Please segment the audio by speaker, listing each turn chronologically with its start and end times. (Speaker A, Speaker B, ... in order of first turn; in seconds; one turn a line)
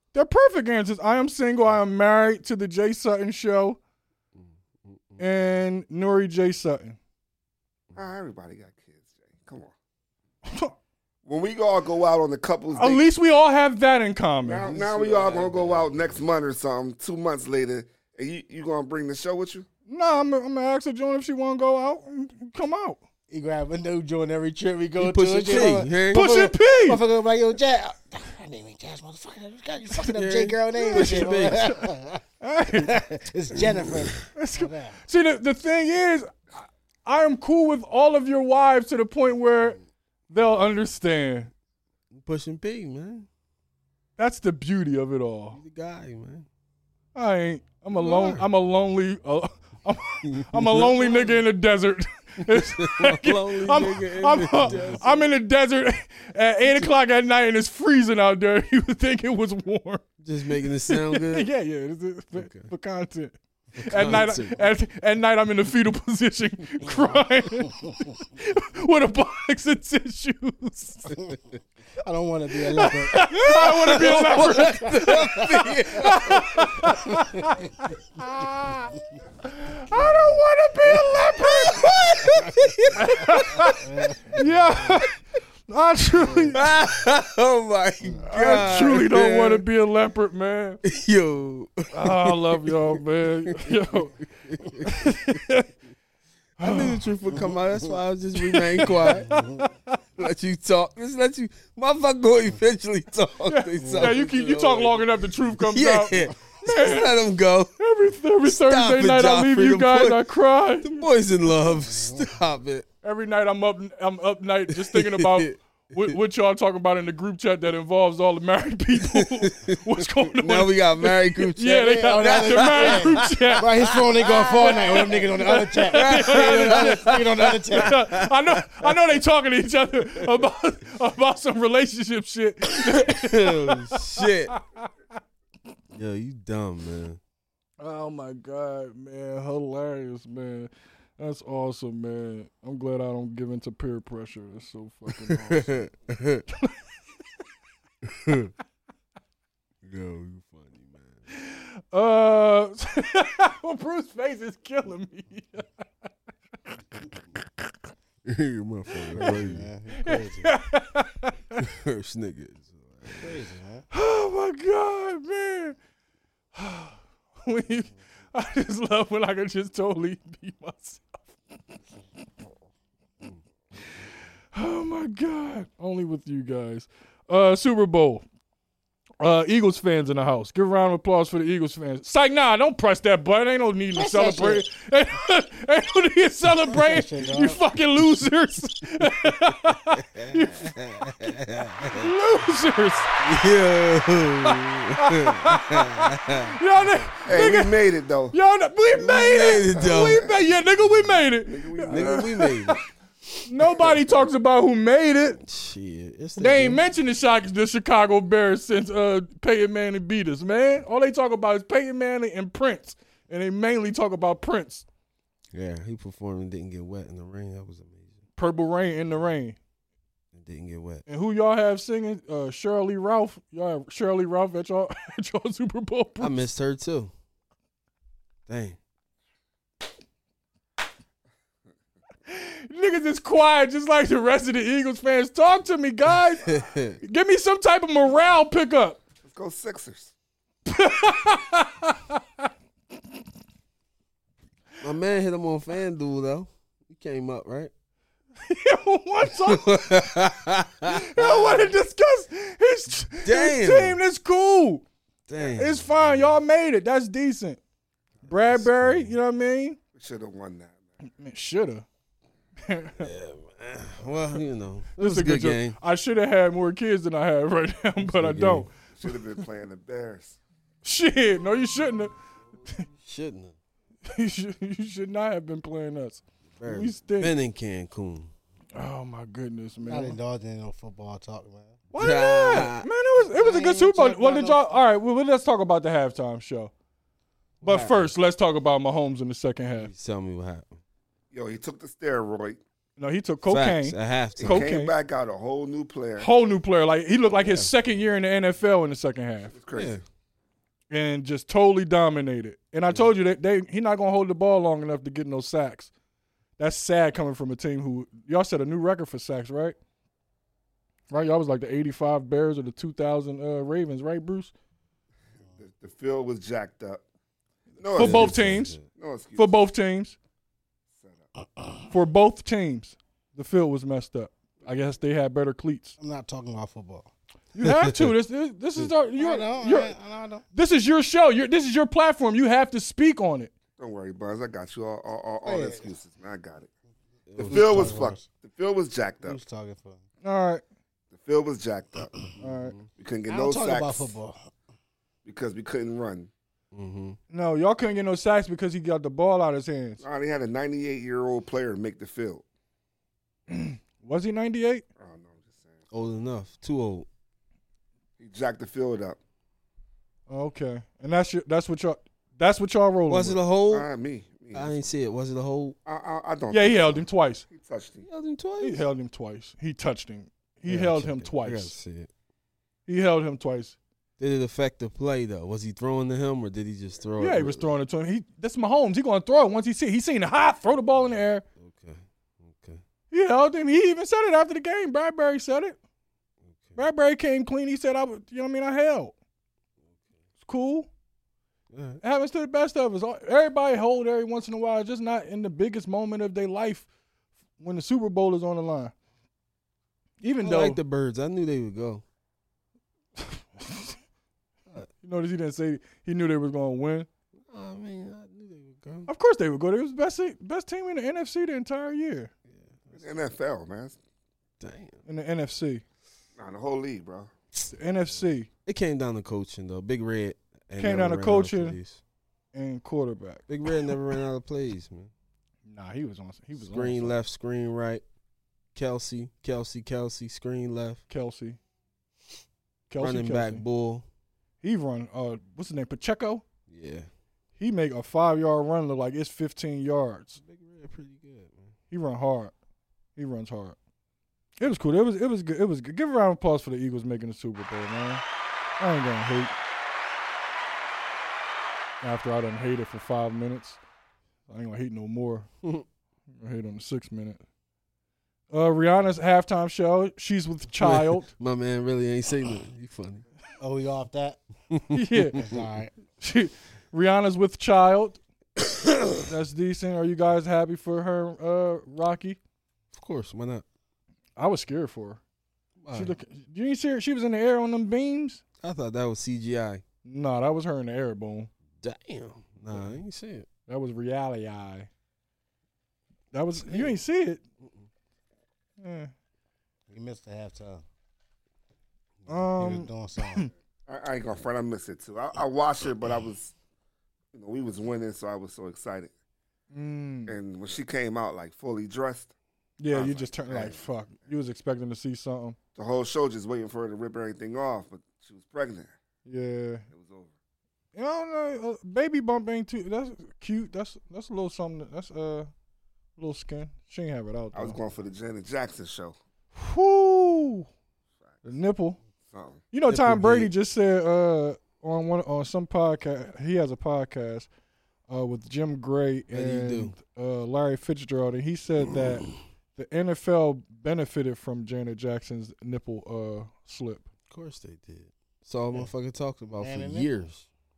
Speaker A: 0.1-3.8
Speaker B: 4.4-5.2
Speaker A: 5.2-7.0
Speaker C: 8.0-9.7
Speaker A: 10.5-10.7
Speaker C: 11.2-13.1
Speaker A: 12.7-14.7
Speaker C: 14.4-19.7
Speaker B: 14.7-16.1
Speaker A: 19.9-23.0
Speaker D: 23.3-32.2
Speaker B: 25.0-26.3
Speaker A: 26.1-27.0
Speaker B: 30.0-31.6
Speaker A: 30.8-31.9
Speaker A: 32.4-33.0
Speaker D: 32.8-35.0
Speaker A: 34.3-41.5
Speaker B: 42.1-43.3
Speaker A: 44.2-45.6
Speaker B: 45.5-46.5
Speaker A: 47.1-60.1
Speaker B: 47.9-48.5
Speaker B: 50.2-51.4
Speaker B: 52.4-55.2
Speaker B: 60.2-61.5
Speaker A: 60.9-71.2
Speaker B: 62.4-62.7
Speaker B: 63.8-64.6
Speaker D: 72.0-74.3
Speaker A: 72.7-82.2
Speaker B: 73.2-76.7
Speaker B: 81.4-83.7
Speaker A: 83.0-85.2
Speaker D: 83.8-84.9
Speaker A: 85.7-86.6
Speaker D: 86.2-86.6
Speaker B: 86.5-89.7
Speaker A: 88.2-90.8
Speaker B: 90.8-95.4
Speaker A: 91.9-94.2
Speaker A: 94.8-95.7
Speaker A: 96.6-97.1
Speaker B: 96.6-99.3
Speaker A: 98.4-100.0
Speaker D: 99.3-99.6
Speaker B: 100.2-107.7
Speaker A: 103.5-107.2
Speaker D: 103.8-104.2
Speaker A: 107.8-111.1
Speaker B: 108.4-110.2
Speaker B: 110.8-112.9
Speaker D: 111.8-112.3
Speaker A: 113.0-123.9
Speaker B: 114.7-116.2
Speaker B: 119.0-125.3
Speaker D: 121.7-128.0
Speaker A: 124.5-134.9
Speaker B: 125.9-129.0
Speaker B: 130.2-130.4
Speaker B: 132.7-134.6
Speaker B: 135.9-137.2
Speaker A: 137.8-145.8
Speaker B: 145.1-146.4
Speaker B: 148.0-148.5
Speaker B: 149.8-151.2
Speaker A: 151.3-155.7
Speaker B: 158.2-159.7
Speaker D: 159.2-160.5
Speaker A: 160.0-161.6
Speaker B: 161.6-163.4
Speaker D: 163.2-163.8
Speaker A: 163.9-165.8
Speaker A: 166.6-171.4
Speaker A: 174.5-178.2
Speaker A: 179.2-190.8
Speaker D: 183.9-184.7
Speaker D: 186.7-187.6
Speaker B: 189.9-192.1
Speaker A: 191.9-193.1
Speaker B: 193.2-196.6
Speaker A: 194.5-197.8
Speaker C: 197.3-198.3
Speaker A: 198.3-202.8
Speaker B: 199.0-200.3
Speaker C: 199.4-200.3
Speaker C: 201.4-202.5
Speaker B: 201.9-202.8
Speaker A: 203.5-205.4
Speaker B: 205.4-206.8
Speaker A: 206.4-214.8
Speaker B: 215.5-218.2
Speaker A: 218.4-219.6
Speaker B: 220.3-221.1
Speaker A: 221.1-226.4
Speaker B: 226.2-227.1
Speaker B: 228.5-228.8
Speaker A: 232.3-239.0
Speaker B: 236.4-237.0
Speaker C: 239.2-240.1
Speaker A: 240.7-242.4
Speaker B: 244.8-247.7
Speaker A: 248.4-250.1
Speaker B: 249.3-251.7
Speaker A: 250.8-254.8
Speaker B: 253.2-254.0
Speaker B: 255.3-256.3
Speaker A: 255.4-257.6
Speaker A: 258.2-259.8
Speaker B: 258.4-259.1
Speaker C: 259.9-260.8
Speaker A: 261.2-261.9
Speaker A: 262.6-263.1
Speaker B: 263.0-265.8
Speaker A: 265.0-268.7
Speaker B: 268.0-268.7
Speaker C: 269.0-270.4
Speaker A: 270.8-272.1
Speaker B: 273.0-273.6
Speaker A: 274.1-277.3
Speaker B: 276.6-278.3
Speaker A: 278.8-280.2
Speaker D: 279.8-281.8
Speaker A: 281.9-286.7
Speaker B: 282.0-282.9
Speaker D: 283.3-284.6
Speaker B: 287.6-288.1
Speaker A: 287.6-289.9
Speaker B: 289.8-290.8
Speaker C: 291.3-292.6
Speaker A: 293.0-294.9
Speaker B: 293.5-294.7
Speaker C: 294.4-296.3
Speaker A: 296.2-299.5
Speaker B: 297.3-297.7
Speaker C: 299.5-300.0
Speaker B: 299.7-300.0
Speaker A: 300.9-305.9
Speaker A: 306.6-309.8
Speaker A: 311.1-314.5
Speaker C: 315.6-317.0
Speaker C: 317.8-319.6
Speaker A: 318.0-318.8
Speaker B: 318.0-318.8
Speaker A: 319.4-320.2
Speaker C: 321.0-321.3
Speaker A: 321.9-326.0
Speaker D: 326.0-327.1
Speaker A: 327.6-329.9
Speaker B: 327.6-328.1
Speaker D: 329.2-330.4
Speaker A: 330.5-333.5
Speaker C: 333.8-336.7
Speaker D: 335.4-335.9
Speaker B: 337.3-337.9
Speaker C: 337.4-339.4
Speaker D: 337.4-338.3
Speaker D: 339.2-340.0
Speaker A: 340.2-340.6
Speaker C: 341.1-342.3
Speaker A: 342.4-342.8
Speaker B: 342.4-342.9
Speaker C: 343.0-344.1
Speaker D: 343.3-344.4
Speaker C: 345.2-346.3
Speaker B: 346.7-347.2
Speaker A: 347.3-350.0
Speaker C: 350.0-352.4
Speaker A: 353.5-354.8
Speaker C: 355.0-355.9
Speaker B: 355.9-357.1
Speaker C: 358.2-359.2
Speaker A: 360.3-363.4
Speaker B: 363.1-363.9
Speaker C: 363.7-364.9
Speaker B: 364.5-365.8
Speaker C: 365.9-368.1
Speaker A: 366.5-367.5
Speaker B: 368.0-368.8
Speaker A: 368.6-371.7
Speaker B: 370.7-372.1
Speaker A: 372.9-373.8
Speaker B: 374.2-377.7
Speaker A: 377.2-381.4
Speaker B: 381.6-382.8
Speaker A: 383.1-385.8
Speaker B: 386.5-386.8
Speaker A: 386.8-389.1
Speaker A: 390.4-390.9
Speaker B: 391.7-392.0
Speaker A: 392.0-396.9
Speaker A: 397.6-398.9
Speaker A: 400.2-400.8
Speaker B: 400.4-402.0
Speaker A: 403.2-404.0
Speaker A: 405.0-407.1
Speaker B: 407.5-409.1
Speaker A: 409.1-412.3
Speaker B: 412.5-412.8
Speaker C: 412.9-414.0
Speaker B: 414.6-415.0
Speaker A: 415.1-415.8
Speaker C: 416.4-417.3
Speaker A: 417.7-418.5
Speaker B: 418.7-422.0
Speaker A: 420.8-421.8
Speaker A: 422.5-423.5
Speaker B: 423.5-425.1
Speaker A: 425.7-427.2
Speaker B: 426.6-428.0
Speaker B: 428.8-431.0
Speaker A: 431.1-431.6
Speaker A: 432.9-433.6
Speaker B: 433.0-434.1
Speaker A: 434.6-436.4
Speaker B: 436.7-437.1
Speaker A: 437.6-440.4
Speaker B: 440.4-441.7
Speaker A: 441.9-442.5
Speaker A: 443.2-443.8
Speaker A: 444.6-448.2
Speaker A: 448.8-449.5
Speaker A: 452.0-453.8
Speaker A: 454.5-455.5
Speaker A: 456.4-457.4
Speaker A: 458.5-461.3
Speaker B: 460.8-463.2
Speaker D: 463.6-464.4
Speaker B: 464.7-465.6
Speaker A: 464.9-465.5
Speaker D: 465.4-465.9
Speaker A: 466.2-468.2
Speaker B: 468.7-469.1
Speaker A: 469.2-472.4
Speaker B: 472.9-473.6
Speaker A: 474.4-475.2
Speaker B: 475.8-476.1
Speaker A: 475.9-478.4
Speaker B: 478.6-479.8
Speaker A: 480.1-481.5
Speaker B: 481.8-483.5
Speaker A: 483.7-484.9
Speaker A: 486.3-487.4
Speaker A: 488.8-489.1
Speaker D: 489.9-490.8
Speaker A: 492.3-493.5
Speaker D: 492.6-493.5
Speaker C: 493.9-496.5
Speaker C: 497.3-499.1
Speaker A: 499.7-500.4
Speaker C: 500.3-502.3
Speaker A: 502.8-505.6
Speaker C: 502.9-503.8
Speaker C: 505.8-508.9
Speaker A: 509.3-509.9
Speaker C: 509.9-510.4
Speaker A: 510.9-515.5
Speaker A: 516.2-517.8
Speaker C: 517.5-519.2
Speaker A: 519.5-520.7
Speaker A: 521.4-522.0
Speaker C: 522.3-522.6
Speaker A: 522.7-527.5
Speaker B: 522.9-523.5
Speaker A: 528.1-537.1
Speaker B: 529.3-530.0
Speaker B: 537.3-540.5
Speaker D: 539.6-540.1